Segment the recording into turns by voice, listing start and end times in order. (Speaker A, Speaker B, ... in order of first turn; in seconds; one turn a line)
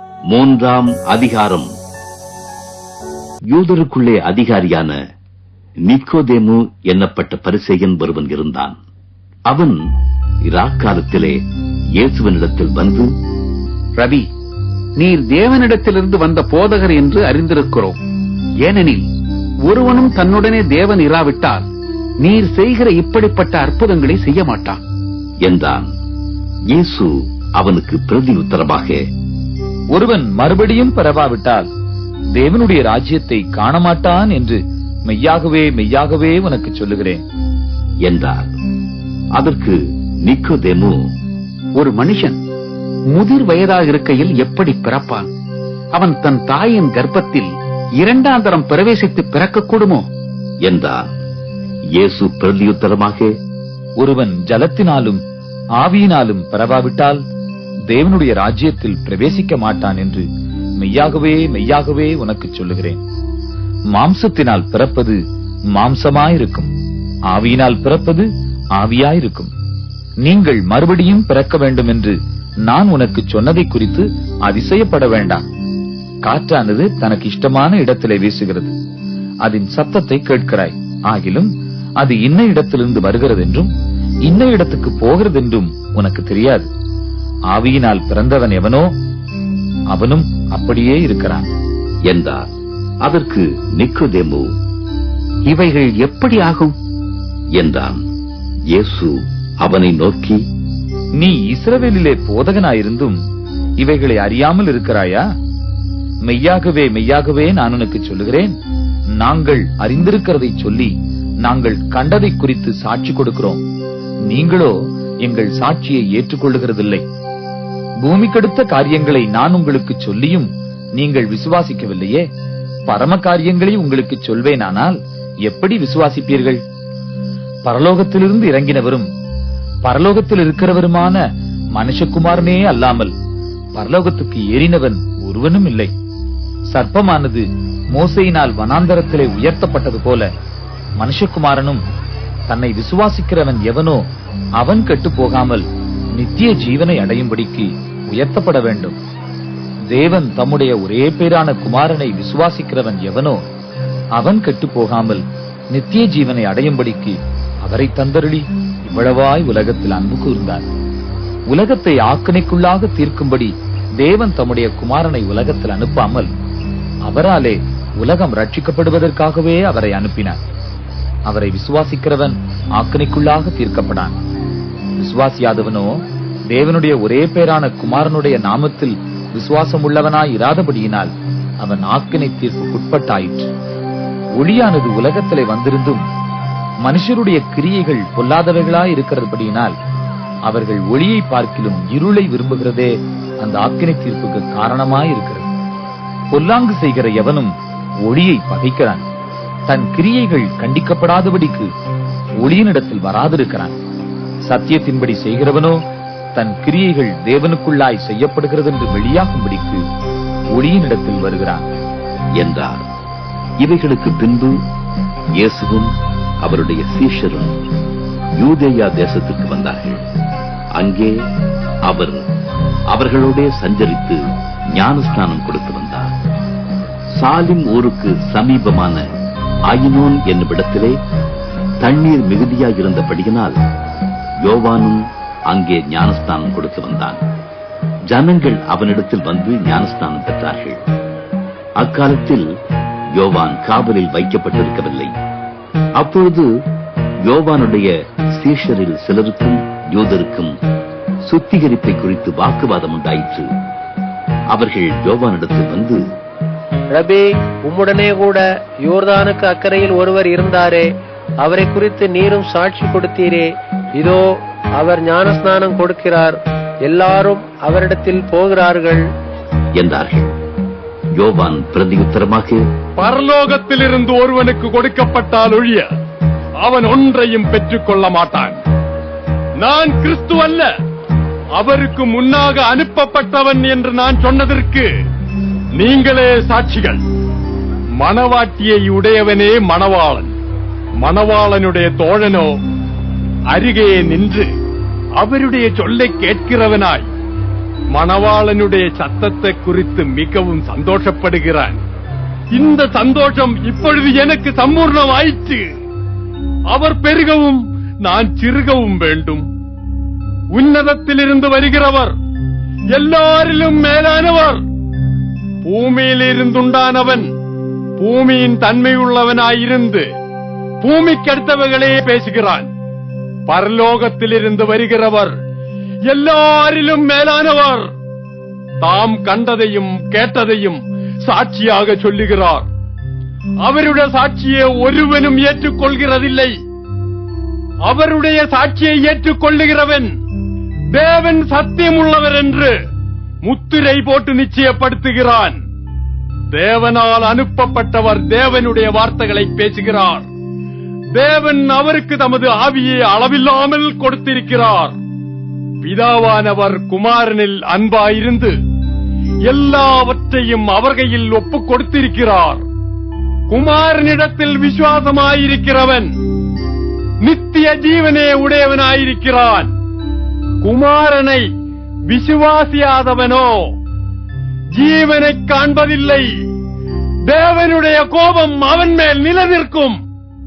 Speaker A: 0.3-1.7
Speaker A: 3.5-5.0
Speaker A: 5.9-8.8
Speaker A: 9.5-9.8
Speaker A: 10.5-11.4
Speaker A: 12.0-13.1
Speaker B: 14.0-14.3
Speaker B: 15.0-18.0
Speaker B: 18.6-19.1
Speaker B: 19.7-21.7
Speaker B: 22.2-24.8
Speaker A: 25.4-25.9
Speaker A: 26.7-29.0
Speaker C: 29.9-31.7
Speaker C: 32.4-37.2
Speaker A: 38.0-38.5
Speaker A: 39.4-41.0
Speaker B: 41.8-42.4
Speaker B: 43.1-45.3
Speaker B: 45.9-50.1
Speaker A: 50.6-51.1
Speaker A: 52.0-53.3
Speaker C: 54.0-55.2
Speaker C: 55.8-57.2
Speaker C: 57.9-60.3
Speaker C: 60.8-63.0
Speaker C: 63.9-65.2
Speaker C: 65.7-66.7
Speaker C: 67.3-69.5
Speaker C: 70.2-72.2
Speaker C: 72.7-75.4
Speaker C: 76.2-78.7
Speaker C: 79.4-83.7
Speaker C: 84.2-86.7
Speaker C: 87.5-88.9
Speaker C: 89.9-91.5
Speaker A: 92.1-92.5
Speaker A: 93.0-94.5
Speaker B: 95.5-96.8
Speaker A: 97.6-98.0
Speaker A: 98.7-100.4
Speaker C: 101.2-103.2
Speaker C: 103.8-105.2
Speaker C: 106.2-108.5
Speaker C: 109.2-110.9
Speaker C: 111.4-113.6
Speaker C: 114.3-117.0
Speaker C: 118.0-122.2
Speaker C: 122.9-126.6
Speaker C: 127.7-129.1
Speaker C: 129.8-131.2
Speaker C: 131.8-133.1
Speaker C: 133.8-135.9
Speaker C: 136.7-140.3
Speaker C: 141.0-141.8
Speaker C: 142.5-144.0
Speaker C: 144.6-149.0
Speaker C: 149.9-153.4
Speaker C: 154.2-160.7
Speaker C: 161.5-166.3
Speaker C: 167.1-170.4
Speaker C: 171.3-174.2
Speaker C: 175.0-183.5
Speaker C: 184.4-186.0
Speaker C: 186.8-189.7
Speaker C: 190.5-195.5
Speaker C: 196.3-197.5
Speaker C: 198.1-199.0
Speaker C: 199.7-201.7
Speaker C: 202.4-203.7
Speaker C: 204.5-205.8
Speaker C: 206.4-209.8
Speaker C: 210.5-211.7
Speaker A: 212.4-212.8
Speaker A: 213.6-214.6
Speaker A: 215.4-217.6
Speaker A: 218.4-220.0
Speaker A: 220.8-221.1
Speaker A: 221.9-222.2
Speaker A: 222.9-224.2
Speaker A: 224.7-226.1
Speaker A: 227.2-229.0
Speaker A: 229.7-230.9
Speaker A: 231.8-233.6
Speaker A: 234.4-237.2
Speaker A: 238.1-240.8
Speaker A: 241.8-242.5
Speaker A: 243.2-245.1
Speaker A: 246.0-246.5
Speaker A: 247.2-250.5
Speaker A: 251.3-253.5
Speaker A: 254.5-256.0
Speaker D: 256.9-260.9
Speaker D: 261.4-264.2
Speaker D: 264.8-269.0
Speaker A: 269.8-270.3
Speaker A: 271.2-272.6
Speaker E: 273.0-275.9
Speaker E: 276.6-278.6
Speaker E: 279.6-280.7
Speaker E: 281.6-284.9
Speaker E: 285.8-287.0
Speaker E: 288.0-290.3
Speaker E: 291.0-292.5
Speaker E: 293.5-294.5
Speaker E: 295.2-297.1
Speaker E: 297.9-301.8
Speaker E: 302.5-305.6
Speaker E: 306.7-309.4
Speaker E: 310.5-312.1
Speaker E: 312.9-314.6
Speaker E: 315.6-317.3
Speaker E: 318.0-320.1
Speaker E: 320.8-322.7
Speaker E: 323.5-325.3
Speaker E: 326.1-327.9
Speaker E: 328.8-332.7
Speaker E: 333.6-336.5
Speaker E: 337.9-340.1
Speaker E: 340.9-342.8
Speaker E: 343.4-345.6
Speaker E: 346.5-350.3
Speaker E: 351.1-354.9
Speaker E: 355.8-358.5
Speaker E: 359.5-362.6
Speaker E: 363.5-366.1
Speaker E: 367.2-369.7
Speaker E: 370.6-371.4
Speaker E: 372.1-373.7
Speaker E: 374.8-376.3
Speaker E: 377.3-380.0